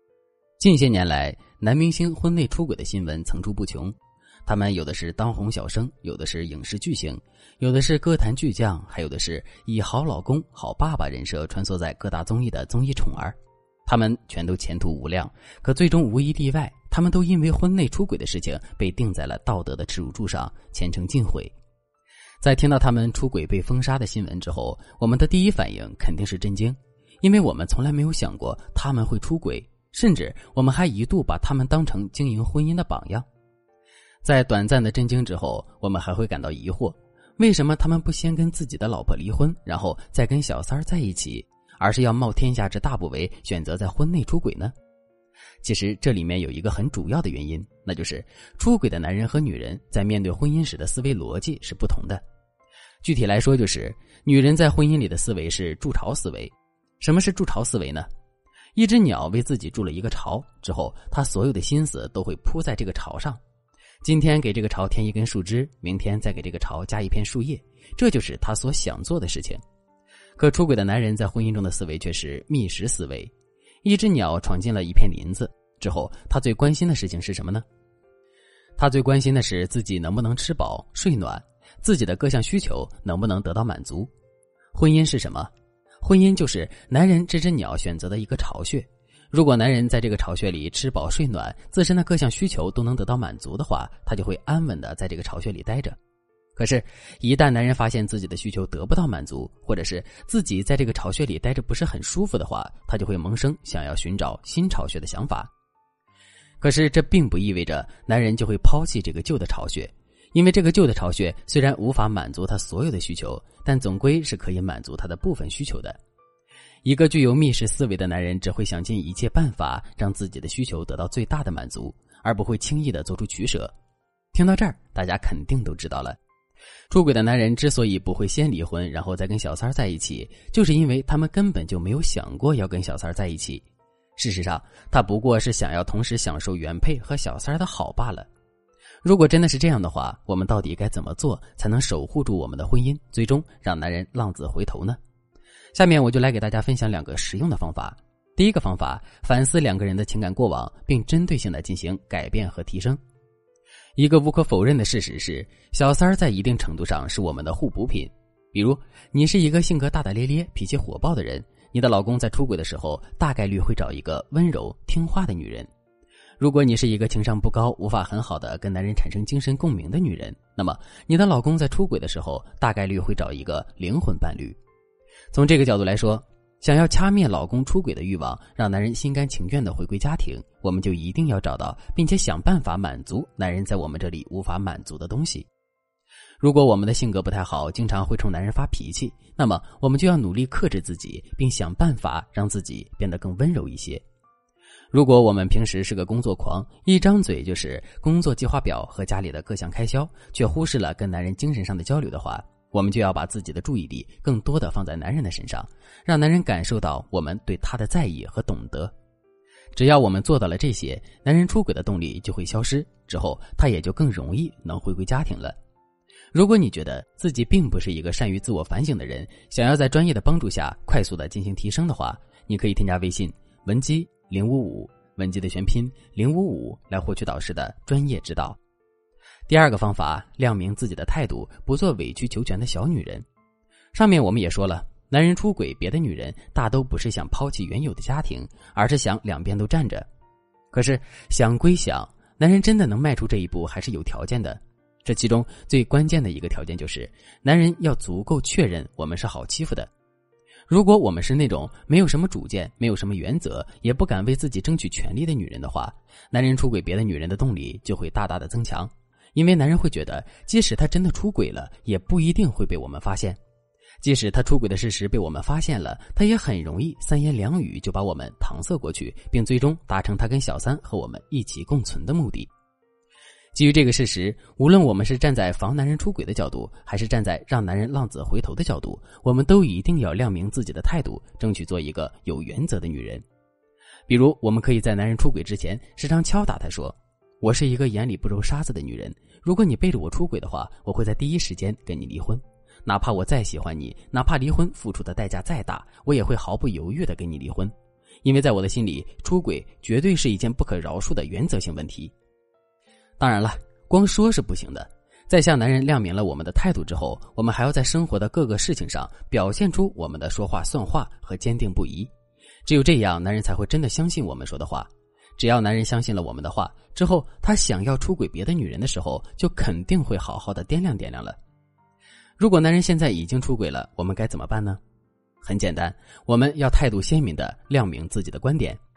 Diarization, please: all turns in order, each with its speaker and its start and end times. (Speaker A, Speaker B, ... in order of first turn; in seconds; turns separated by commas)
Speaker A: 0.6-3.9, Speaker A: 4.5-21.5, Speaker A: 22.4-33.2, Speaker A: 34.2-44.7, Speaker A: 45.6-52.2, Speaker A: 53.0-58.1, Speaker A: 58.8-63.4, Speaker A: 64.0-69.6, Speaker A: 70.4-73.3, Speaker A: 73.8-77.6, Speaker A: 78.8-84.1, Speaker A: 84.7-85.5, Speaker A: 86.0-96.0, Speaker A: 96.5-105.5, Speaker A: 106.6-116.0, Speaker A: 116.8-123.7, Speaker A: 124.3-126.2, Speaker A: 126.9-133.6, Speaker A: 134.2-138.3, Speaker A: 139.0-145.0, Speaker A: 145.7-153.0, Speaker A: 154.0-165.7, Speaker A: 166.4-174.6, Speaker A: 175.3-185.5, Speaker A: 186.4-194.0, Speaker A: 194.9-208.9, Speaker A: 209.7-215.6, Speaker A: 216.3-228.6, Speaker A: 229.5-233.2, Speaker A: 233.9-240.1, Speaker A: 240.7-249.9, Speaker A: 250.7-263.4, Speaker A: 264.0-272.5, Speaker A: 273.5-283.2, Speaker A: 284.1-297.7, Speaker A: 298.2-302.1, Speaker A: 303.2-312.1, Speaker A: 312.6-321.4, Speaker A: 322.4-324.8, Speaker A: 325.4-328.8